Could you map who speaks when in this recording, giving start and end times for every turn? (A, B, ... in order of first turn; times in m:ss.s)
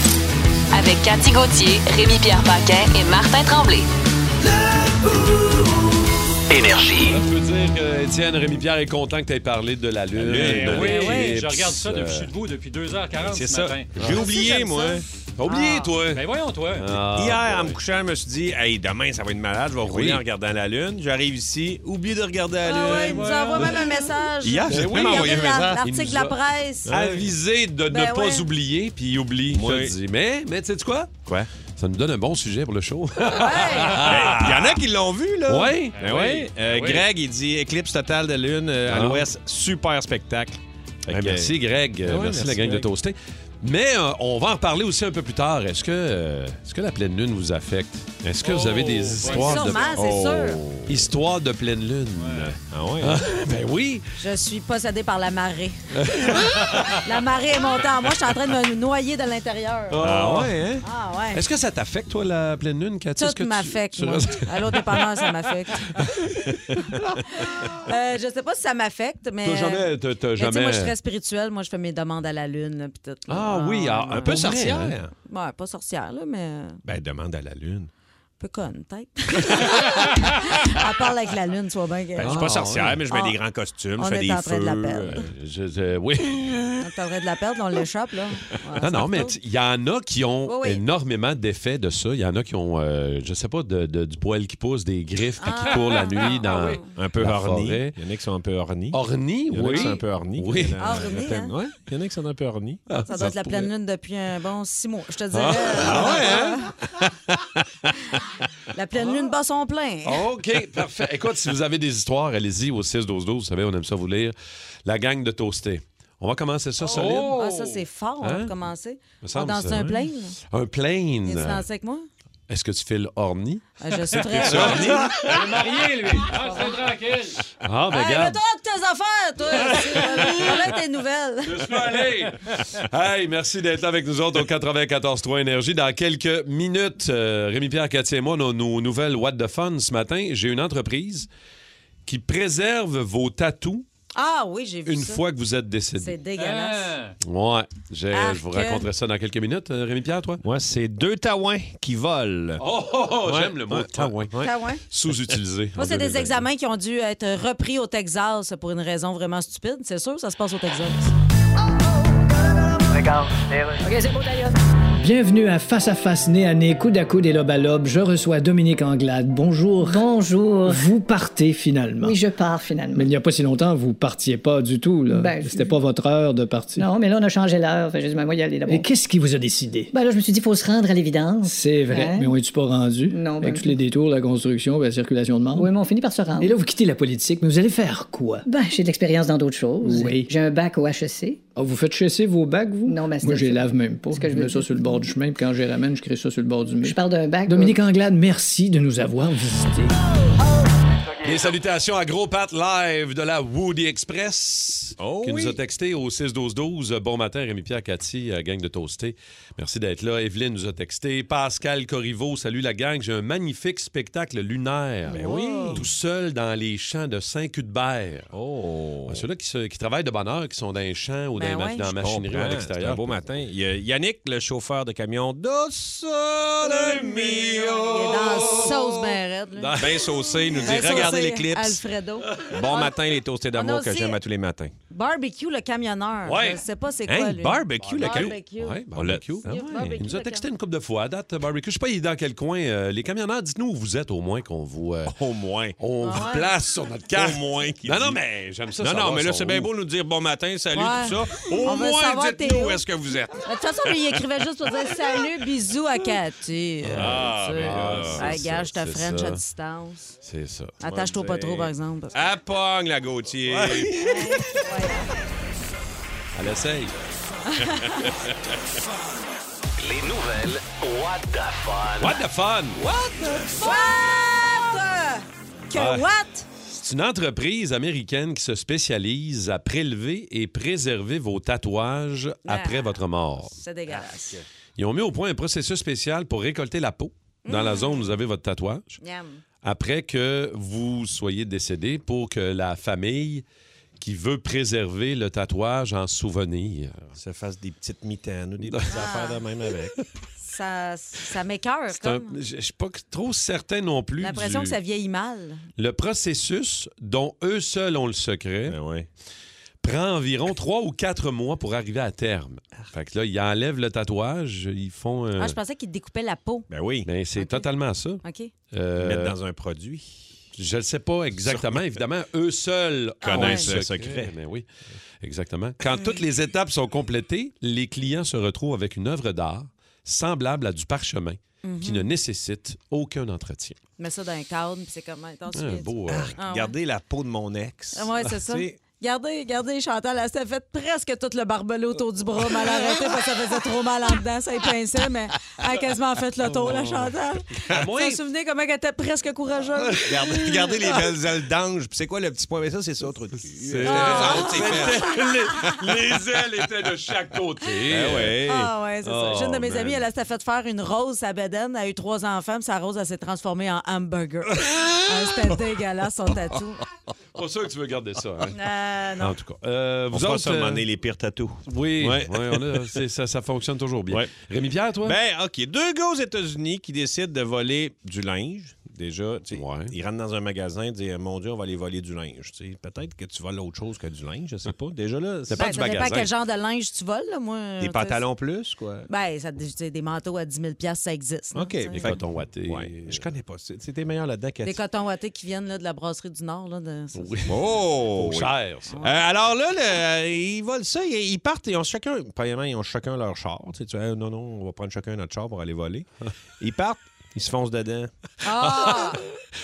0:00.7-0:03.9 A
0:06.5-0:07.2 B
0:07.1-0:12.3 C
0:10.1-0:11.0 D
0:10.3-0:14.1 E
0:10.8-0:11.4 F
0:13.2-0:15.0 D
0:14.0-0:14.3 C
0:14.1-0:15.9 F
0:15.4-0:17.8 C
0:16.1-0:17.0 E
0:17.1-0:23.4 D
0:19.9-0:20.2 C
0:22.6-0:26.9 F
0:22.7-0:23.9 E
0:24.4-0:25.8 D
0:24.7-0:31.1 C
0:26.9-0:27.3 D
0:27.9-0:28.5 F
0:29.5-0:30.0 D
0:31.8-0:34.8 C
0:33.3-0:34.0 F
0:34.0-0:42.9 D
0:35.5-0:36.4 C
0:36.0-0:37.1 E
0:38.9-0:39.3 C
0:41.1-0:50.2 C
0:48.4-0:49.9 E
0:49.2-0:50.6 F
0:49.9-0:51.1 D
0:50.9-0:54.1 C
0:52.2-0:52.6 E
0:52.6-0:53.2 D
0:54.2-1:00.0 F
0:56.0-0:57.0 C
0:59.9-1:00.7 C
1:00.0-1:00.8 D
1:00.8-1:01.4 F
1:01.3-1:07.7 C
1:03.2-1:06.0 F
1:07.4-1:14.7 F
1:09.4-1:10.9 C
1:13.3-1:15.0 C
1:14.1-1:15.1 D
1:15.3-1:16.8 F
1:16.8-1:17.9 D
1:18.4-1:22.4 F
1:22.2-1:25.3 D
1:22.2-1:23.0 C
1:23.1-1:23.4 F
1:24.0-1:25.2 F
1:25.1-1:26.9 C
1:26.8-1:29.4 F
1:28.8-1:38.0 C
1:30.4-1:30.8 F
1:35.4-1:36.9 F
1:35.8-1:36.8 E
1:37.0-1:42.8 D
1:38.9-1:41.2 C
1:40.8-1:41.5 F
1:42.9-1:43.7 C
1:43.0-1:46.7 F
1:45.3-1:47.5 C
1:45.8-1:46.7 D
1:48.7-1:50.3 F
1:50.0-1:57.7 C
1:56.8-1:57.3 E
1:56.9-2:00.4 F
1:58.2-1:58.5 C
1:59.2-2:01.6 C
2:01.2-2:02.1 F
2:02.5-2:05.6 C
2:03.8-2:05.0 F
2:04.4-2:05.2 D
2:04.6-2:07.4 E
2:06.4-2:06.7 F
2:07.6-2:08.4 C
2:07.9-2:11.9 F
2:09.7-2:10.5 C
2:11.4-2:21.3 C
2:22.0-2:23.8 C
2:24.1-2:25.2 F
2:24.8-2:26.2 C
2:26.0-2:26.9 F
2:26.4-2:27.2 E
2:27.2-2:30.4 C
2:28.1-2:28.9 F
2:30.4-2:34.5 D
2:32.6-2:36.4 C
2:34.4-2:34.8 F
2:35.8-2:41.1 F
2:43.8-2:44.6 G
2:45.0-2:50.0 H
2:49.8-2:50.8 G
2:50.7-2:52.2 H
2:52.0-2:53.1 G
2:52.9-2:56.9 H
2:55.1-2:55.8 G
2:56.8-2:58.9 G
2:58.7-2:59.9 H
2:59.9-3:02.3 G
3:01.4-3:05.7 H
3:03.1-3:03.8 G
3:05.5-3:06.5 G
3:06.4-3:08.4 H
3:08.4-3:11.4 G
3:09.8-3:10.3 H
3:11.6-3:19.9 H
3:12.8-3:15.1 G
3:16.8-3:17.8 G
3:21.2-3:38.3 C
3:25.0-3:25.6 D
3:35.1-3:35.8 F
3:35.1-3:35.9 D
3:38.3-3:39.2 D
3:39.1-3:43.2 C
3:41.3-3:41.9 F
3:42.0-3:48.6 D
3:46.6-3:48.8 C
3:47.8-3:49.9 F
3:49.6-3:50.1 C
3:49.8-3:51.8 D
3:50.6-3:52.9 F
3:52.5-3:54.7 D
3:53.5-3:54.2 F
3:54.9-4:00.4 F
3:56.2-3:56.6 C
3:57.1-3:58.4 D
3:57.8-4:05.1 C
3:58.9-3:59.7 D
4:05.1-4:05.8 D
4:05.8-4:09.7 C
4:06.0-4:06.5 F
4:07.1-4:08.2 D
4:08.8-4:14.2 D
4:10.7-4:12.8 F
4:13.4-4:20.1 F
4:16.8-4:19.4 C
4:16.9-4:18.3 D
4:20.2-4:20.7 C
4:20.8-4:22.2 F
4:20.9-4:24.0 D
4:23.5-4:24.7 C
4:24.0-4:25.1 F
4:26.4-4:26.9 C
4:27.5-4:28.1 F
4:29.8-4:32.2 B
4:32.0-4:32.8 C
4:32.8-4:33.5 D
4:33.6-4:36.5 F
4:35.7-4:36.1 C
4:36.7-4:43.6 C
4:42.5-4:44.4 F
4:44.8-4:48.9 C
4:47.4-4:48.1 F
4:49.0-4:49.4 F
4:49.6-4:53.4 C
4:54.0-4:57.1 C
4:57.2-5:00.0 D
4:58.6-4:59.2 C
4:58.9-4:59.4 F
5:00.4-5:02.4 F
5:01.9-5:04.8 C
5:04.2-5:05.6 F
5:05.8-5:08.8 C
5:08.7-5:09.1 D
5:09.8-5:15.6 C
5:15.4-5:16.7 F
5:16.7-5:17.1 D
5:17.0-5:19.4 C
5:17.4-5:17.7 F
5:18.2-5:18.5 F
5:19.0-5:20.2 D
5:20.6-5:24.7 C
5:21.4-5:22.0 D
5:23.2-5:23.7 F
5:23.2-5:24.3 D
5:25.2-5:33.8 C
5:31.6-5:32.1 F
5:34.0-5:36.8 F
5:35.5-5:36.4 C
5:36.3-5:38.8 D
5:37.9-5:50.1 F
5:46.5-5:47.1 C
5:47.7-5:48.2 C
5:50.0-5:50.4 C
5:50.0-5:55.0 D
5:53.6-5:58.4 C
5:53.8-5:55.8 F
5:57.9-5:58.7 D
5:58.4-6:06.8 F
5:59.0-6:00.0 C
6:07.4-6:08.6 C
6:08.5-6:09.4 F
6:09.2-6:10.8 C
6:10.1-6:13.0 D
6:11.7-6:15.2 C
6:15.0-6:25.8 D
6:19.5-6:19.9 C
6:25.5-6:26.3 C
6:25.6-6:28.3 F
6:27.8-6:29.1 D
6:29.1-6:32.1 F
6:31.5-6:34.8 D
6:32.0-6:33.2 C
6:34.6-6:37.3 F
6:37.2-6:37.6 C
6:37.5-6:46.1 D
6:38.1-6:39.0 C
6:38.9-6:39.2 F
6:46.6-6:48.1 D
6:48.4-6:49.2 F
6:48.5-6:49.3 C